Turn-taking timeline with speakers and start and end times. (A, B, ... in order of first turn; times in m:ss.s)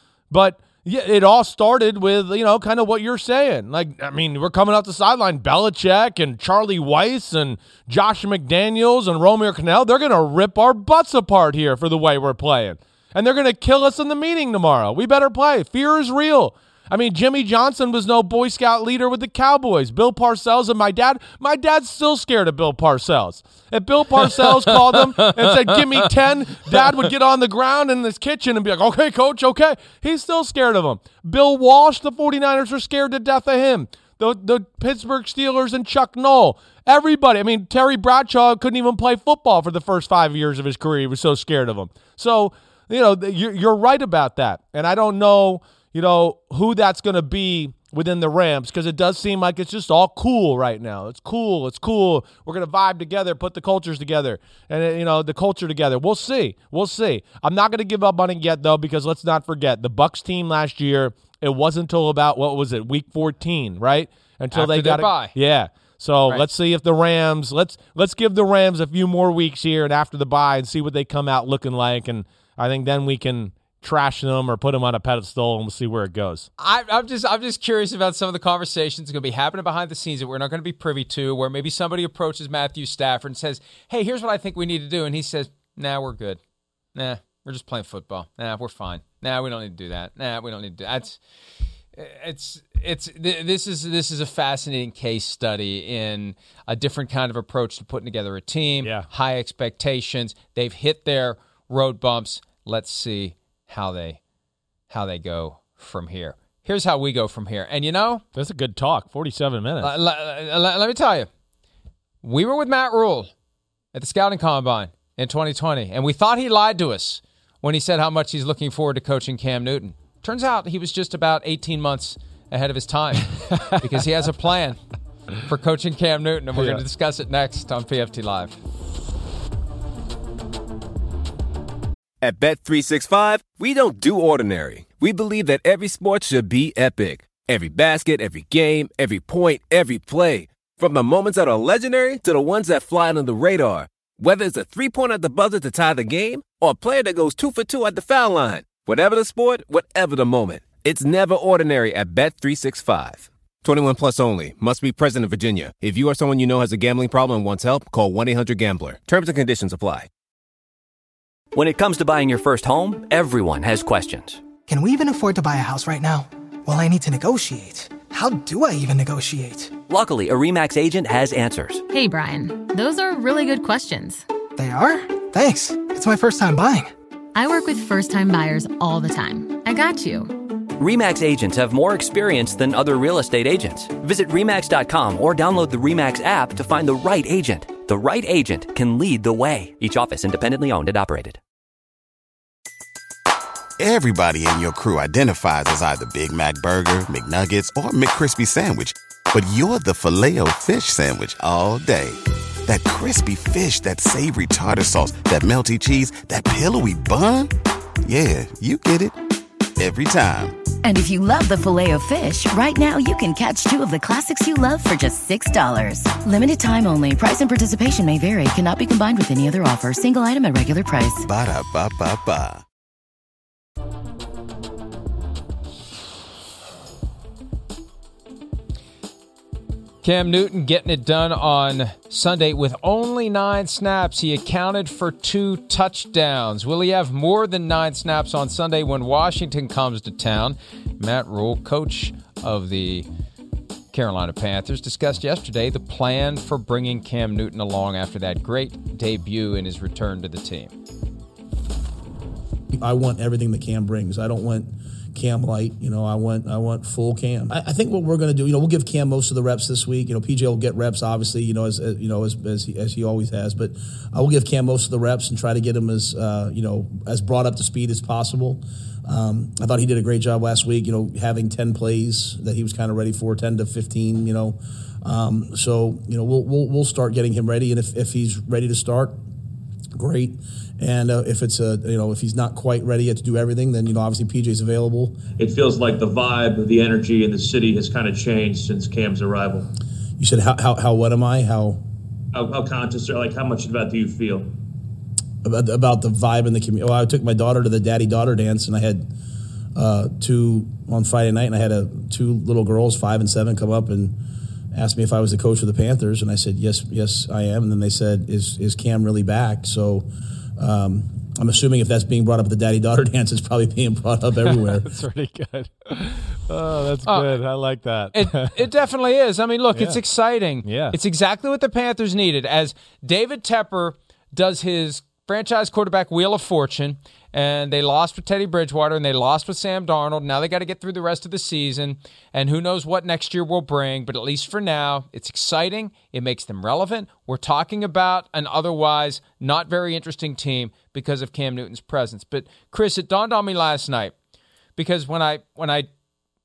0:00.3-1:16.5 A
0:24.4-0:25.0 B
1:04.5-1:05.4 B
1:16.6-1:26.4 B
1:27.0-1:31.2 B
1:32.0-1:44.2 B
1:38.8-1:39.1 A
1:44.9-1:48.2 B
1:48.4-1:49.9 A
1:49.8-1:51.3 B
1:52.2-1:53.3 B
1:53.9-2:04.8 B
2:03.4-2:04.0 A
2:05.4-2:08.6 B
2:06.6-2:06.8 A
2:12.2-2:40.1 C
2:41.5-2:44.5 D
2:44.7-2:49.8 E
2:49.9-2:51.8 D
2:51.9-2:54.2 F
2:54.6-2:56.9 E
2:57.3-3:00.4 F
3:00.7-3:11.4 D
3:13.8-3:27.5 G
3:28.0-3:29.1 G
3:29.8-3:30.6 G
3:30.8-3:41.2 H
3:41.2-3:42.6 G
3:50.0-4:03.1 B
4:03.9-4:10.7 B
4:12.7-4:39.2 I
4:40.0-4:45.2 I
4:45.4-4:49.7 J
4:50.2-4:51.8 I
4:52.3-4:54.5 J
4:55.4-4:59.1 I
4:59.8-5:04.2 I
5:04.7-5:10.1 I
5:10.6-5:14.9 I
5:14.4-5:18.7 A
5:17.1-5:17.4 B
5:18.1-5:44.1 B
5:19.7-5:20.0 A
5:20.6-5:21.0 A
5:44.8-5:45.9 B